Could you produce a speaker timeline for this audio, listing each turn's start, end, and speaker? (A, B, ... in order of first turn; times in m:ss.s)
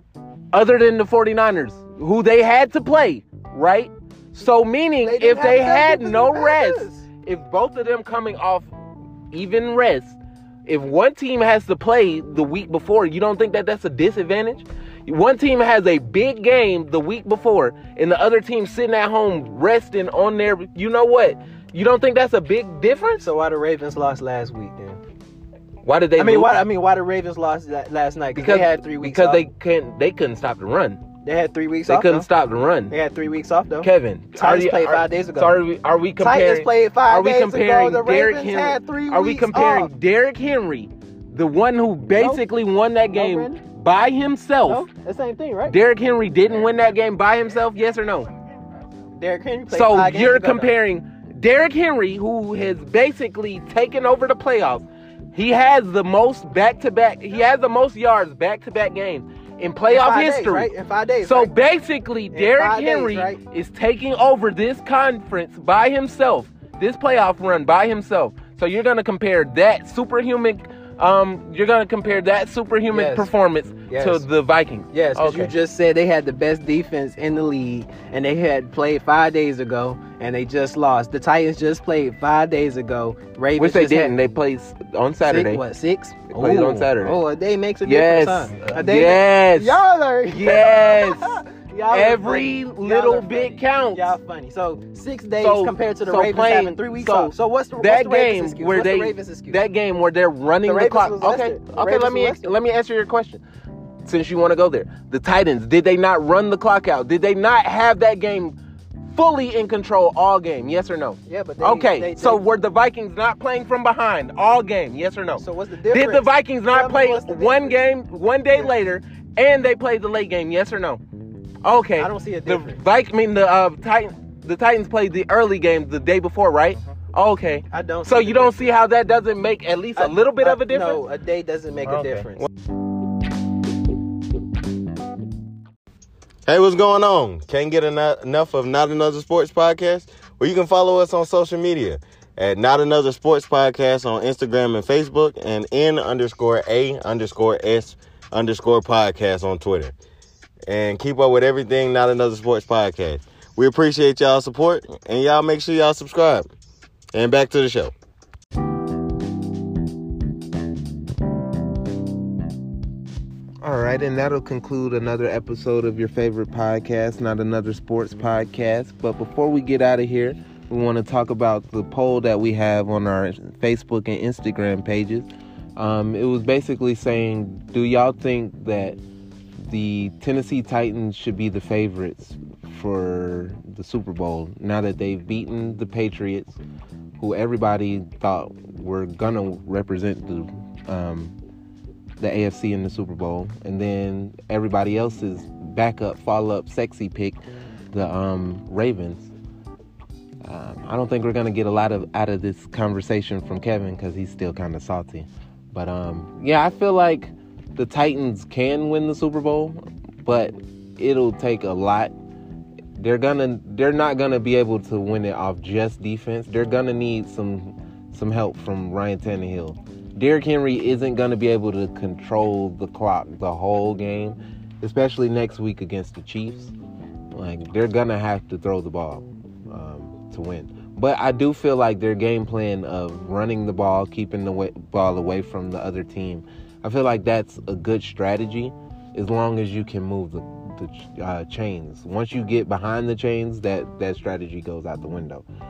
0:00.5-0:08.7 A
0:05.0-0:07.1 B
0:09.3-0:23.3 A
0:23.2-0:25.0 B
0:25.8-0:26.6 A
0:26.2-0:29.4 B
0:28.3-0:31.0 A
0:31.2-0:32.3 B
0:31.9-0:32.9 A
0:32.9-0:35.6 B
0:33.8-0:44.9 A
0:36.2-0:39.9 B
0:42.1-0:42.4 B
0:43.1-0:43.6 B
0:44.7-0:45.8 B
0:45.6-0:48.3 A
0:46.5-0:48.9 C
0:49.2-0:50.7 B
0:49.7-1:00.7 A
0:59.9-1:01.5 B
1:01.2-1:15.5 A
1:02.3-1:03.4 B
1:12.9-1:13.3 B
1:13.9-1:14.2 B
1:14.9-1:24.2 B
1:23.6-1:25.6 A
1:25.2-1:39.6 B
1:26.3-1:27.2 A
1:27.8-1:34.1 A
1:28.5-1:28.8 C
1:35.4-1:43.4 A
1:40.6-1:42.5 B
1:44.0-1:48.6 A
1:49.1-2:01.0 A
1:51.3-1:52.5 B
1:55.4-1:57.8 B
2:01.6-2:11.0 A
2:02.0-2:02.8 B
2:07.7-2:08.7 B
2:10.0-2:12.4 B
2:16.4-2:30.0 C
2:30.7-2:36.5 C
2:37.1-2:37.9 C
2:43.6-2:59.0 A
2:59.6-3:06.6 A
3:07.2-3:11.4 A
3:12.2-3:17.4 A
3:17.9-3:19.3 A
3:20.4-3:32.1 A
3:33.0-3:46.7 A
3:47.3-4:05.4 A